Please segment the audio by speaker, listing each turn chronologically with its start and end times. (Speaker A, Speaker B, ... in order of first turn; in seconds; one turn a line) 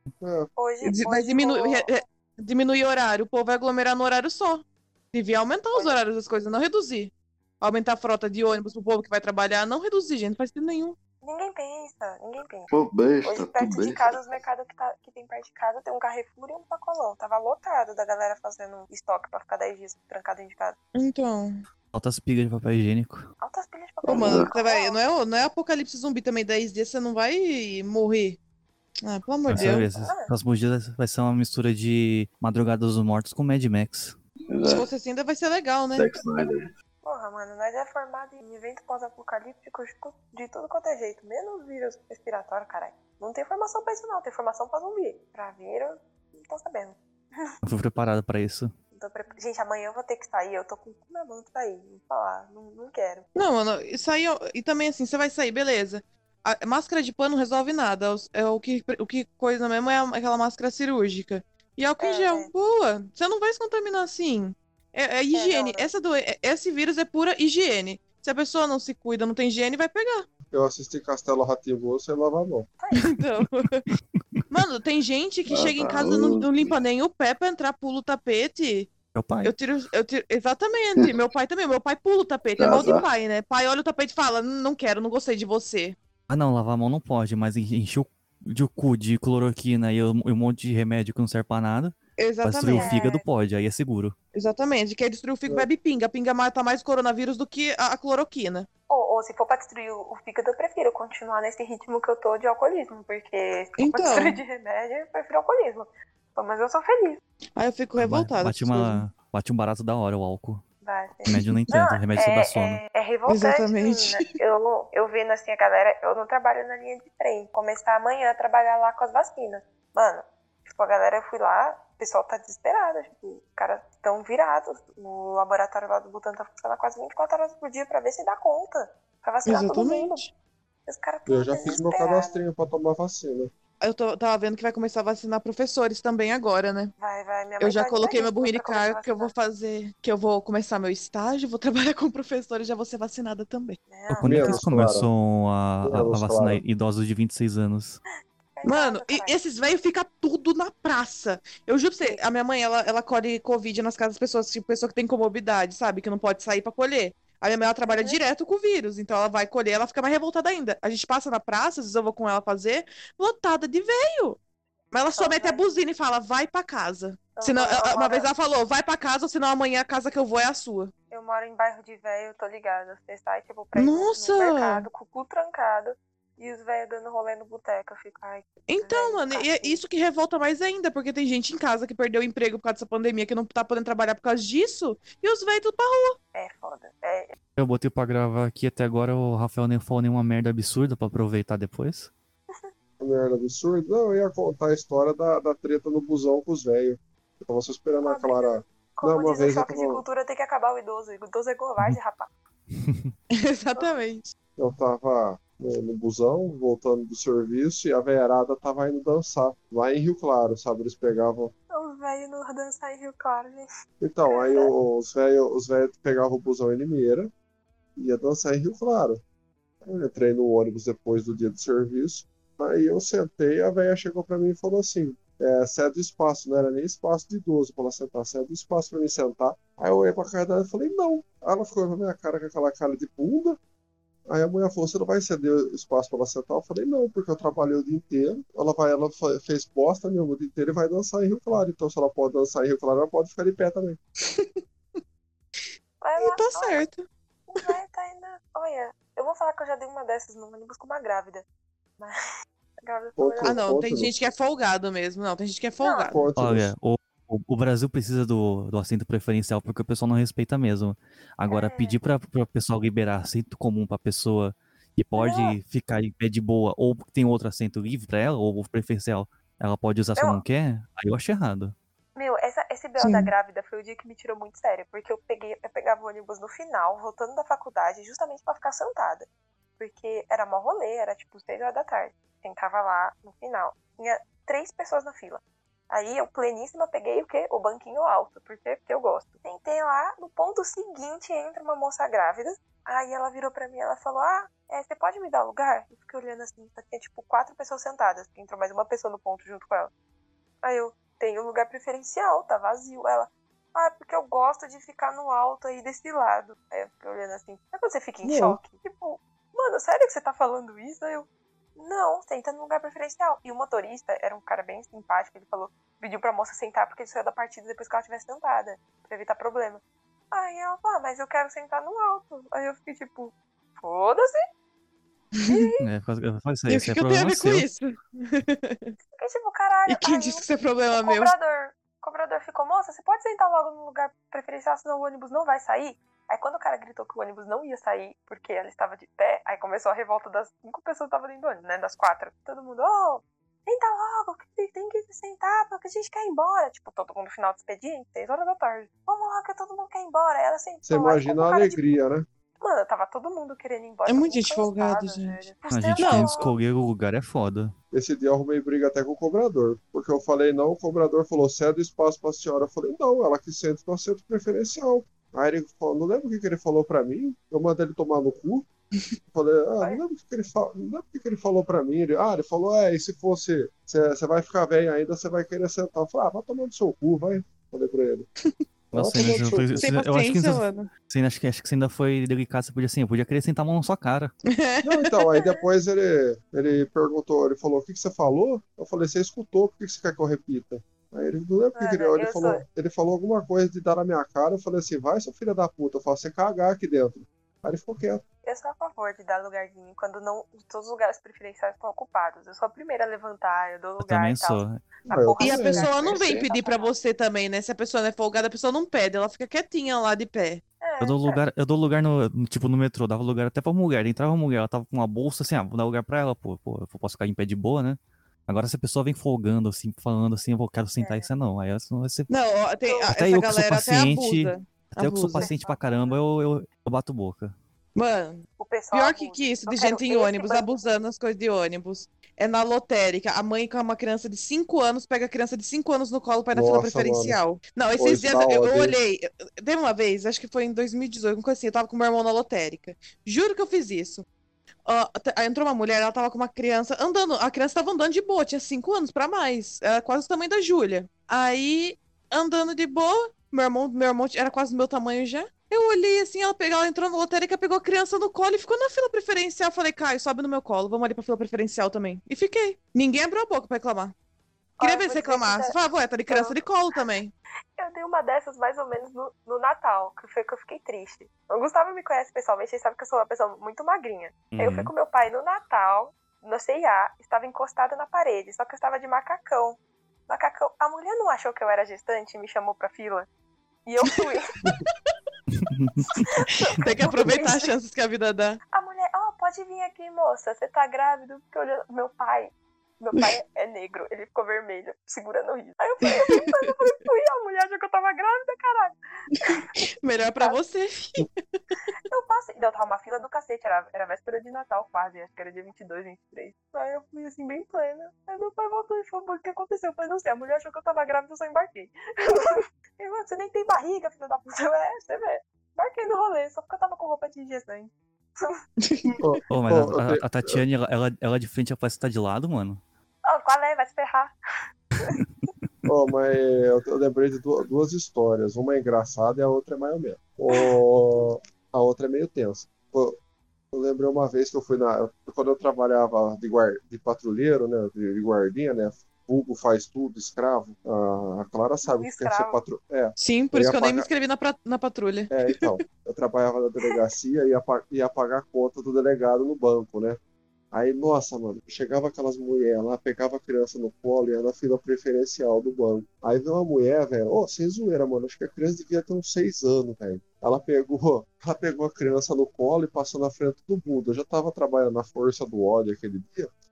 Speaker A: 0.2-0.5
Speaker B: 0.6-1.9
Speaker C: 0.8-11.0
Speaker B: 11.2-12.7
Speaker D: 12.7-14.4
Speaker B: 13.2-20.8
Speaker C: 20.9-21.6
Speaker E: 21.9-23.3
Speaker B: 23.4-25.0
Speaker D: 24.0-24.5
Speaker C: 24.1-28.4
Speaker C: 29.0-29.9
Speaker E: 29.5-34.1
Speaker B: 29.6-30.3
Speaker D: 34.5-34.9
Speaker C: 34.6-36.1
Speaker D: 36.0-36.7
Speaker B: 37.0-47.5
Speaker E: 47.6-48.7
Speaker B: 48.9-53.3
Speaker C: 53.3-70.2
Speaker B: 62.0-62.5
Speaker B: 65.3-65.9
Speaker A: 70.5-72.7
Speaker B: 72.8-73.1
Speaker C: 73.0-73.8
Speaker E: 74.1-74.4
Speaker C: 74.5-78.9
Speaker D: 75.5-76.7
Speaker E: 79.1-79.5
Speaker C: 79.4-86.0
Speaker D: 82.6-83.1
Speaker E: 86.3-94.1
Speaker C: 92.2-93.0
Speaker B: 92.7-93.2
Speaker C: 94.3-98.7
Speaker B: 98.9-107.2
Speaker C: 103.8-104.4
Speaker C: 107.5-109.0
Speaker E: 108.0-110.6
Speaker B: 110.8-130.2
Speaker E: 111.2-112.8
Speaker C: 113.3-114.3
Speaker C: 129.4-130.3
Speaker B: 130.9-132.4
Speaker A: 131.3-133.5
Speaker C: 133.8-136.9
Speaker B: 137.0-139.3
Speaker C: 137.6-143.8
Speaker B: 143.9-144.6
Speaker E: 144.1-148.0
Speaker A: 144.2-145.1
Speaker A: 145.8-146.6
Speaker B: 148.5-149.4
Speaker C: 148.6-164.4
Speaker C: 164.9-170.9
Speaker B: 165.1-165.7
Speaker B: 167.3-168.3
Speaker B: 171.1-179.8
Speaker C: 173.7-174.8
Speaker C: 178.7-186.2
Speaker B: 186.3-187.3
Speaker E: 187.6-192.1
Speaker A: 193.0-200.0
Speaker B: 198.0-202.3
Speaker E: 202.8-203.1
Speaker C: 203.3-204.3
Speaker A: 204.6-211.5
Speaker B: 211.7-213.7
Speaker A: 214.0-217.3
Speaker B: 214.3-214.7
Speaker A: 218.0-219.2
Speaker A: 219.8-233.6
Speaker A: 234.3-244.0
Speaker C: 244.2-244.5
Speaker B: 246.0-246.8
Speaker C: 246.2-247.0
Speaker B: 247.5-251.4
Speaker B: 252.8-253.8
Speaker A: 253.2-254.2
Speaker C: 253.4-256.2
Speaker B: 255.8-256.2
Speaker A: 256.1-256.7
Speaker E: 256.4-271.7
Speaker B: 261.5-262.0
Speaker B: 265.2-265.6
Speaker B: 272.1-279.2
Speaker B: 279.8-299.9
Speaker B: 300.6-319.8
Speaker A: 308.2-308.6
Speaker B: 320.3-324.4
Speaker B: 325.5-325.8
Speaker E: 325.8-327.7
Speaker C: 326.7-328.9
Speaker B: 329.1-352.0
Speaker C: 329.9-331.3
Speaker A: 350.8-352.2
Speaker B: 352.6-356.5
Speaker C: 354.1-355.5
Speaker E: 355.7-357.7
Speaker C: 356.0-356.4
Speaker A: 357.9-368.7
Speaker A: 369.3-378.3
Speaker A: 378.9-379.9
Speaker E: 378.9-384.3
Speaker C: 379.8-380.9
Speaker C: 384.5-385.6
Speaker A: 384.8-398.2
Speaker B: 391.8-392.6
Speaker B: 398.4-405.9
Speaker E: 404.0-404.8
Speaker A: 405.1-405.9
Speaker C: 405.4-410.6
Speaker D: 405.9-406.5
Speaker B: 406.4-406.9
Speaker B: 410.8-411.4
Speaker E: 411.0-422.3
Speaker B: 421.0-421.2
Speaker C: 422.3-425.5
Speaker B: 422.8-423.1
Speaker E: 423.1-427.6
Speaker B: 425.4-426.2
Speaker C: 427.9-444.2
Speaker B: 428.6-430.8
Speaker A: 436.5-437.4
Speaker A: 438.0-439.0
Speaker C: 444.9-464.1
Speaker B: 464.8-465.8
Speaker C: 464.8-467.3
Speaker B: 466.3-466.6
Speaker B: 467.8-479.8
Speaker E: 474.5-474.9
Speaker B: 480.3-483.3
Speaker B: 483.9-484.5
Speaker E: 485.5-486.2
Speaker C: 486.7-488.6
Speaker B: 487.2-487.8
Speaker B: 488.7-499.6
Speaker C: 499.4-501.8
Speaker B: 502.1-518.6
Speaker C: 518.8-519.2
Speaker A: 519.2-520.6
Speaker E: 519.5-522.8
Speaker B: 523.2-524.3
Speaker A: 525.9-533.1
Speaker A: 533.7-544.1
Speaker B: 541.9-542.6
Speaker C: 543.2-545.7
Speaker A: 545.3-550.2
Speaker A: 550.7-566.5